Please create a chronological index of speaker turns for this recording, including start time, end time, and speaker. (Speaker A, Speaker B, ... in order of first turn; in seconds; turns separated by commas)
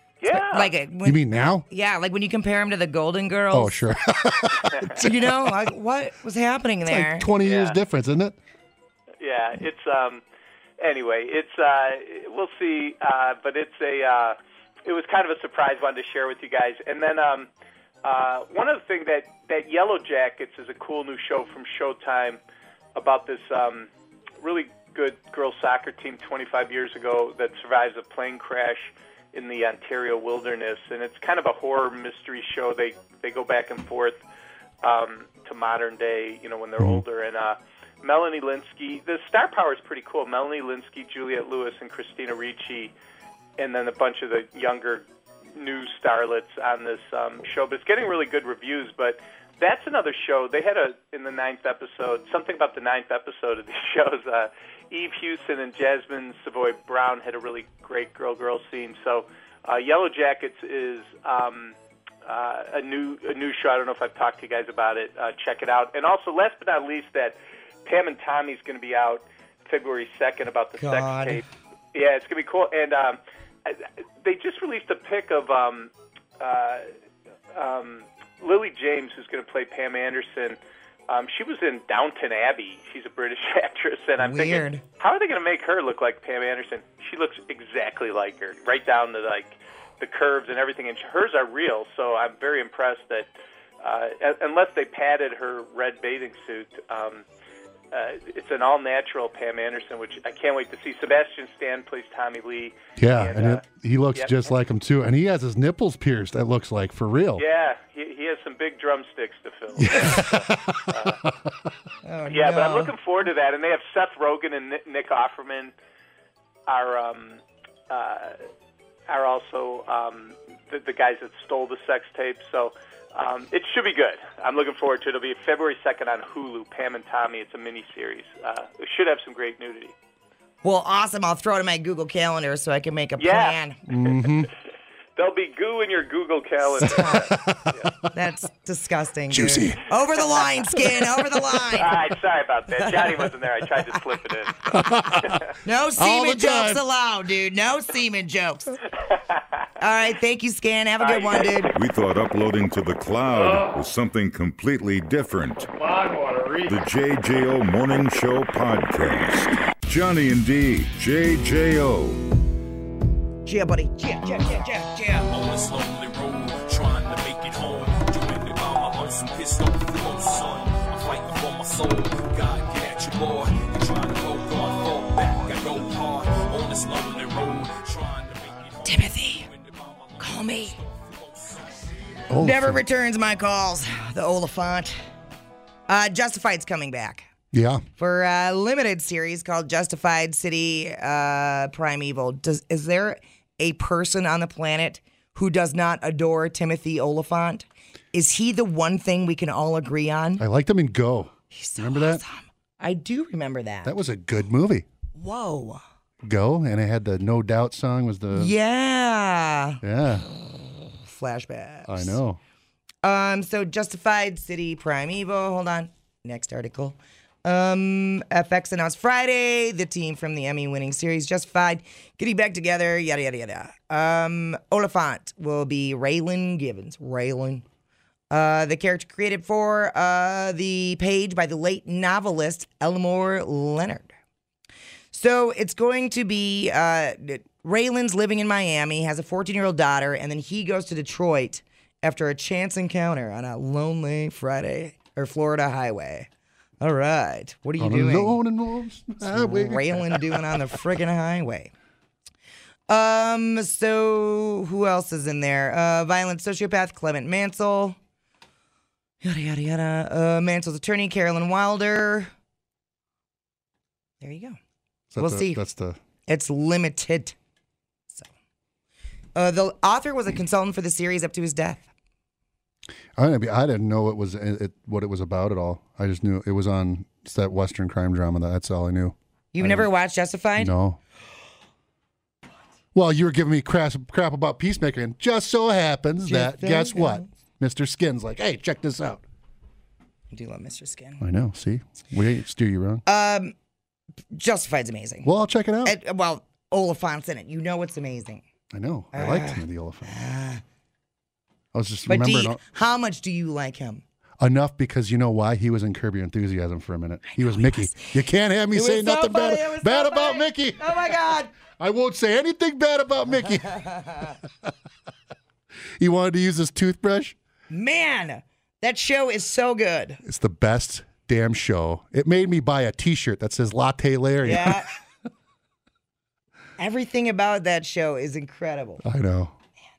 Speaker A: 0.2-0.7, Speaker B: 0.4-3.8, Speaker C: 1.0-1.6, Speaker C: 3.5-5.6, Speaker B: 5.0-7.3, Speaker C: 6.9-8.4, Speaker A: 7.4-7.8, Speaker A: 9.2-10.2, Speaker A: 10.8-17.5, Speaker A: 18.0-22.4, Speaker A: 23.0-23.9, Speaker A: 24.4-34.2, Speaker A: 34.8-42.9, Speaker C: 36.8-37.0, Speaker A: 43.6-45.0, Speaker A: 45.6-61.8, Speaker A: 62.3-76.9, Speaker B: 70.8-71.4, Speaker A: 77.5-80.6, Speaker A: 81.1-93.3, Speaker B: 84.2-84.8, Speaker A: 93.8-97.2, Speaker A: 97.9-104.5, Speaker C: 103.0-107.4, Speaker A: 107.4-111.2, Speaker C: 109.8-111.3, Speaker B: 112.0-112.9, Speaker A: 112.3-115.7, Speaker A: 116.7-118.4, Speaker A: 119.1-129.9, Speaker B: 130.6-133.8, Speaker A: 133.2-133.6, Speaker C: 133.9-134.5, Speaker A: 135.2-137.9, Speaker B: 136.8-137.3, Speaker C: 137.0-137.7, Speaker B: 138.1-142.0, Speaker C: 139.3-139.8, Speaker A: 141.7-145.4, Speaker B: 142.8-143.2, Speaker C: 144.7-145.4, Speaker B: 145.6-148.8, Speaker C: 146.0-146.8, Speaker B: 149.8-151.7, Speaker A: 151.0-151.7, Speaker D: 151.7-155.7, Speaker C: 156.0-156.5, Speaker D: 156.7-162.2, Speaker B: 163.5-165.3, Speaker E: 165.3-182.0, Speaker B: 178.8-179.5, Speaker B: 180.2-180.8, Speaker C: 182.3-182.8, Speaker B: 182.4-185.0, Speaker B: 185.9-187.3, Speaker C: 187.5-187.8, Speaker B: 188.0-200.4, Speaker C: 200.4-202.2, Speaker B: 201.5-203.9, Speaker C: 203.8-204.9, Speaker B: 205.2-205.8, Speaker C: 206.2-208.5, Speaker B: 208.3-209.8, Speaker C: 209.8-210.3, Speaker B: 211.1-212.2, Speaker C: 211.9-212.4, Speaker B: 213.0-227.7, Speaker B: 228.3-234.1, Speaker B: 235.1-246.3, Speaker B: 246.8-248.4, Speaker C: 247.8-250.4, Speaker B: 249.2-251.7, Speaker B: 252.9-258.0, Speaker B: 259.2-262.3, Speaker B: 264.2-264.6, Speaker C: 265.1-266.0, Speaker B: 265.2-265.6, Speaker B: 266.3-267.4, Speaker B: 269.4-271.9, Speaker C: 273.2-279.9, Speaker B: 279.5-280.7, Speaker C: 280.6-281.0, Speaker C: 282.9-289.2, Speaker B: 286.2-287.3, Speaker B: 290.3-291.2, Speaker C: 291.2-293.0, Speaker B: 293.1-293.5, Speaker B: 294.3-295.3, Speaker C: 295.2-296.0, Speaker B: 295.9-298.4, Speaker C: 298.7-300.2, Speaker B: 299.1-300.6, Speaker C: 301.7-302.6, Speaker B: 302.1-304.0, Speaker C: 304.4-310.9, Speaker B: 307.3-308.1, Speaker B: 308.7-311.5, Speaker C: 311.7-313.9, Speaker B: 313.7-314.4, Speaker C: 316.0-317.4, Speaker B: 317.7-320.2, Speaker C: 320.2-324.9, Speaker B: 324.4-324.9, Speaker B: 326.8-329.0, Speaker C: 329.0-329.6